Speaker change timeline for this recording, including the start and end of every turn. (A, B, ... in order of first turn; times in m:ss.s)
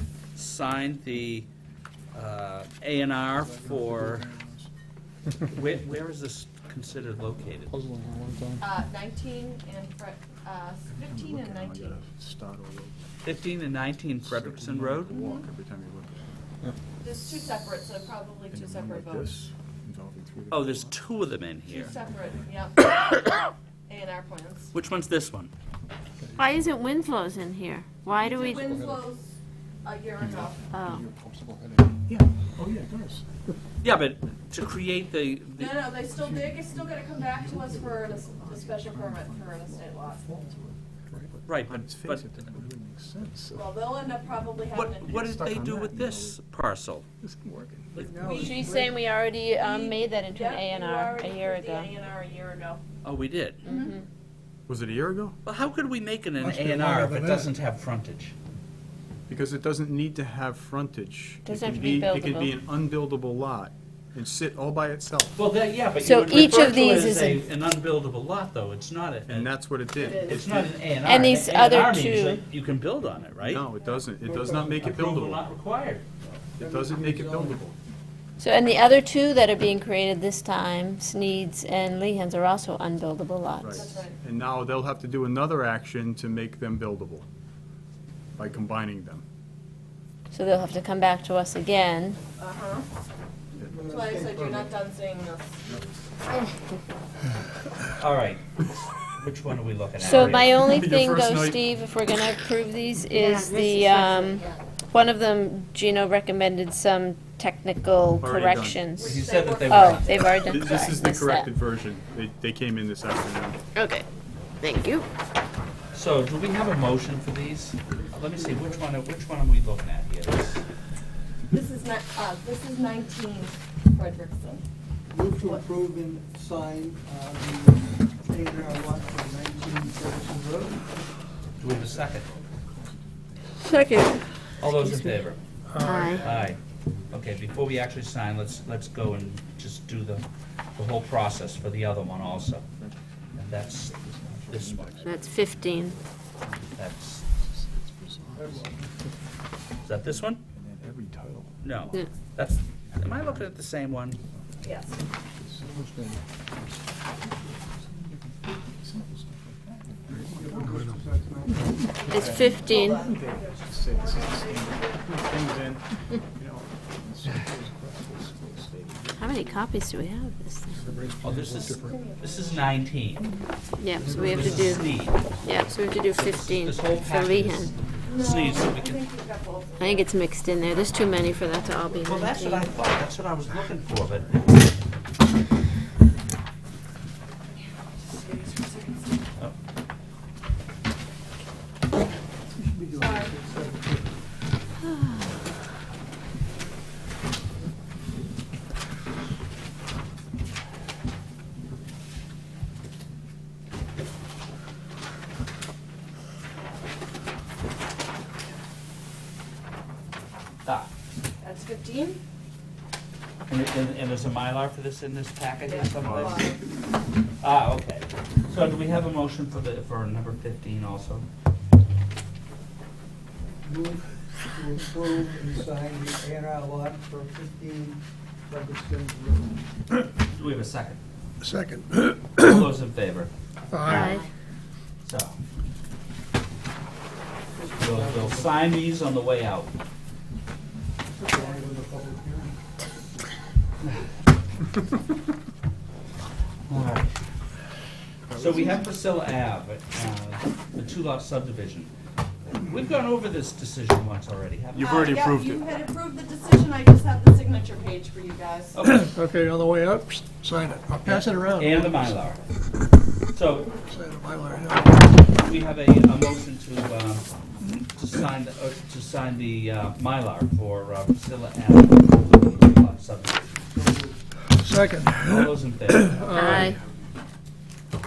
0:00.3-0:01.5 A
0:02.1-0:04.2 A
0:03.4-0:04.7 B
0:05.5-0:07.7 A
0:07.7-0:08.6 C
0:08.6-0:12.0 D
0:10.9-0:13.1 B
0:13.2-0:15.2 A
0:14.2-0:16.2 B
0:15.1-0:15.5 D
0:17.0-0:19.4 D
0:18.5-0:21.0 B
0:20.5-0:21.9 A
0:21.6-0:24.7 D
0:24.7-0:25.5 A
0:26.4-0:28.8 E
0:28.1-0:30.6 D
0:28.6-0:29.0 C
0:30.7-0:31.1 E
0:30.8-0:32.0 C
0:32.0-0:33.2 B
0:33.8-0:35.8 A
0:35.6-0:40.3 D
0:38.4-0:38.9 B
0:40.3-0:43.7 B
0:41.4-0:42.4 A
0:43.5-0:45.4 D
0:44.4-0:46.4 B
0:44.7-0:47.0 A
0:47.2-0:48.1 B
0:48.0-0:48.3 A
0:48.0-0:48.9 F
0:48.1-0:48.9 D
0:48.4-0:51.9 E
0:49.6-0:52.8 D
0:53.0-0:53.6 A
0:53.6-0:54.0 D
0:53.6-0:54.0 E
0:54.7-0:55.4 B
0:55.4-0:58.3 A
0:56.4-0:57.5 G
0:59.3-1:05.4 B
1:01.4-1:02.6 E
1:05.4-1:09.7 A
1:06.0-1:07.4 E
1:09.3-1:10.8 B
1:10.0-1:10.5 D
1:10.2-1:13.6 A
1:11.0-1:12.4 E
1:13.4-1:15.4 B
1:14.2-1:14.8 F
1:14.8-1:16.0 A
1:16.5-1:17.6 F
1:16.6-1:17.8 B
1:18.4-1:23.8 E
1:23.6-1:27.2 B
1:23.7-1:24.1 D
1:28.4-1:29.2 B
1:30.3-1:32.2 E
1:32.4-1:32.9 D
1:33.7-1:34.7 F
1:33.8-1:35.6 D
1:38.0-1:40.7 A
1:40.0-1:51.5 E
1:40.2-1:41.6 B
1:48.2-1:48.8 B
1:49.0-1:50.2 D
1:49.0-1:50.2 A
1:50.4-1:53.6 B
1:53.7-1:54.0 E
1:54.6-1:55.1 E
1:55.9-2:00.6 A
2:01.5-2:04.6 D
2:05.1-2:10.9 F
2:11.6-2:12.3 A
2:11.7-2:13.1 B
2:13.6-2:14.2 E
2:14.6-2:15.4 A
2:15.8-2:16.0 G
2:15.8-2:16.4 E
2:16.0-2:20.2 A
2:16.9-2:18.0 B
2:20.8-2:22.6 A
2:23.3-2:25.1 A
2:23.6-2:26.6 B
2:25.0-2:26.0 E
2:26.7-2:27.2 A
2:27.4-2:28.6 B
2:28.3-2:28.9 F
2:29.8-2:30.4 A
2:29.9-2:32.0 B
2:31.6-2:34.2 A
2:32.9-2:33.6 B
2:34.6-2:35.0 D
2:34.9-2:35.7 B
2:35.7-2:36.2 C
2:37.6-2:40.5 B
2:40.1-2:41.9 F
2:40.7-2:40.9 C
2:41.9-2:45.2 D
2:42.0-2:49.6 B
2:42.1-2:43.1 E
2:49.2-2:50.8 E
2:50.7-2:51.1 B
2:50.8-2:52.0 C
2:51.2-2:53.3 A
2:51.5-2:52.8 D
2:53.8-2:54.9 E
2:54.0-2:55.4 A
2:54.0-2:54.8 F
2:55.4-2:57.7 E
2:56.1-2:59.0 A
2:58.0-3:00.1 D
2:59.8-3:02.7 E
3:02.0-3:04.5 A
3:07.5-3:09.2 D
3:12.4-3:14.1 F
3:12.9-3:13.4 D
3:30.6-3:30.9 A
3:31.4-3:32.2 D
3:33.5-3:36.5 A
3:35.6-3:36.6 D
3:36.0-3:36.5 B
3:37.4-3:41.3 A
3:43.6-3:49.6 F
3:50.3-3:51.0 A
3:51.4-3:52.4 G
3:52.3-3:54.2 A
3:53.7-3:54.0 G
3:53.9-3:54.2 E
3:55.0-3:55.4 A
3:57.5-3:58.5 F
3:57.8-3:59.7 A
4:01.2-4:02.6 F
4:01.3-4:01.7 D
4:06.7-4:07.1 A
4:08.3-4:08.8 B
4:08.3-4:11.9 A
4:12.5-4:15.2 A
4:14.7-4:15.6 B
4:14.8-4:18.8 D
4:18.7-4:19.1 A
4:18.9-4:22.1 G
4:21.0-4:22.4 A
4:23.3-4:23.7 A
4:23.9-4:25.0 G
4:25.2-4:33.7 A
4:33.7-4:34.2 F
4:34.6-4:35.5 G
4:35.2-4:36.7 A
4:36.0-4:36.5 G
4:36.2-4:36.9 B
4:36.3-4:36.8 E